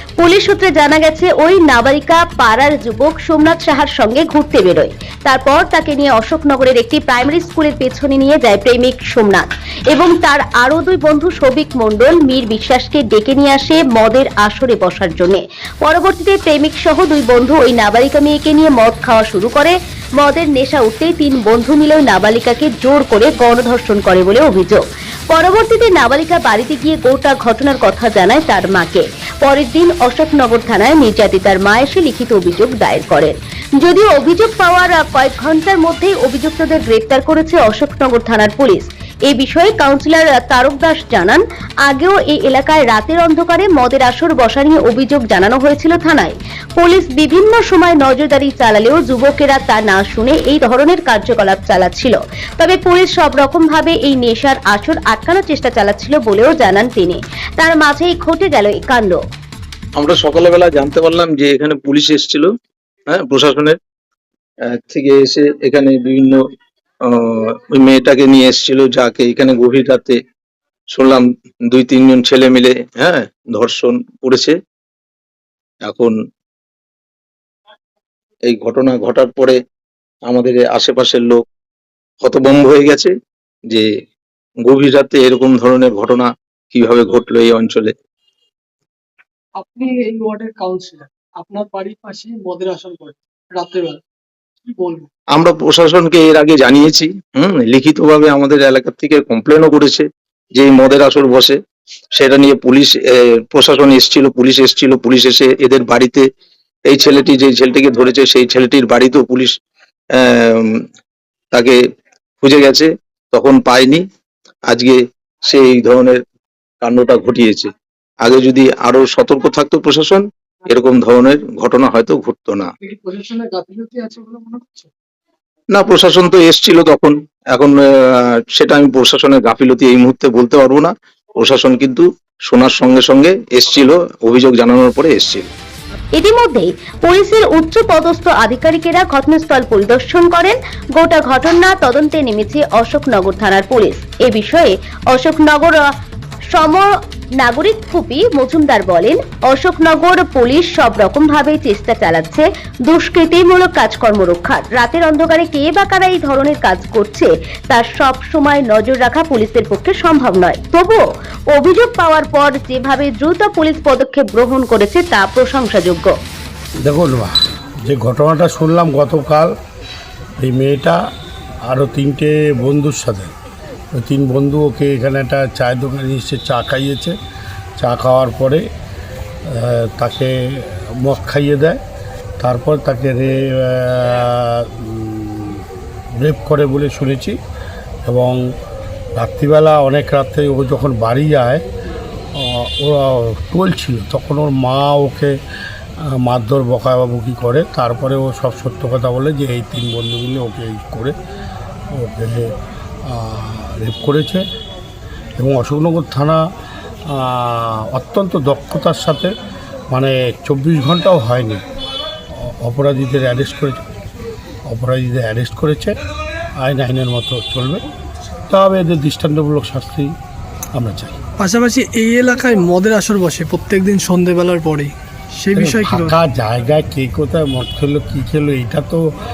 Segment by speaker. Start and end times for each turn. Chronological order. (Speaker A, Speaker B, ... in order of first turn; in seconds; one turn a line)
Speaker A: 0.2-59.2
Speaker B: 60.0-62.5
Speaker B: 63.1-63.8
Speaker B: 64.7-66.4
Speaker B: 67.0-70.2
Speaker B: 70.9-74.6
Speaker B: 75.8-76.1
Speaker B: 78.5-79.6
Speaker B: 80.3-81.4
Speaker B: 82.2-83.1
Speaker B: 84.7-87.9
Speaker C: 89.6-94.0
Speaker C: 94.6-95.1
Speaker B: 95.3-101.6
Speaker B: 102.2-106.2
Speaker B: 106.9-109.5
Speaker B: 110.1-110.7
Speaker B: 111.5-111.8
Speaker B: 112.4-114.0
Speaker B: 114.7-116.2
Speaker B: 116.8-122.7
Speaker C: 122.8-124.9
Speaker B: 125.7-135.5
Speaker A: 136.2-145.8
Speaker A: 146.5-166.1
Speaker D: 166.8-167.3
Speaker D: 167.9-169.5
Speaker D: 170.4-171.0
Speaker D: 171.7-173.3
Speaker D: 174.0-177.1
Speaker D: 177.8-178.6
Speaker D: 179.5-181.8
Speaker D: 182.4-185.6
Speaker D: 186.2-187.3
Speaker D: 188.1-188.4
Speaker D: 189.2-191.6
Speaker D: 192.3-195.3
Speaker D: 196.0-201.1
Speaker D: 201.9-202.5
Speaker D: 203.1-204.4
Speaker D: 205.4-206.4
Speaker D: 207.1-209.3
Speaker D: 209.9-211.6
Speaker D: 212.4-213.8
Speaker D: 214.7-215.9
Speaker D: 216.6-217.8
Speaker D: 218.5-220.1
Speaker D: 220.7-221.2
Speaker C: 221.4-226.2
Speaker D: 225.5-229.0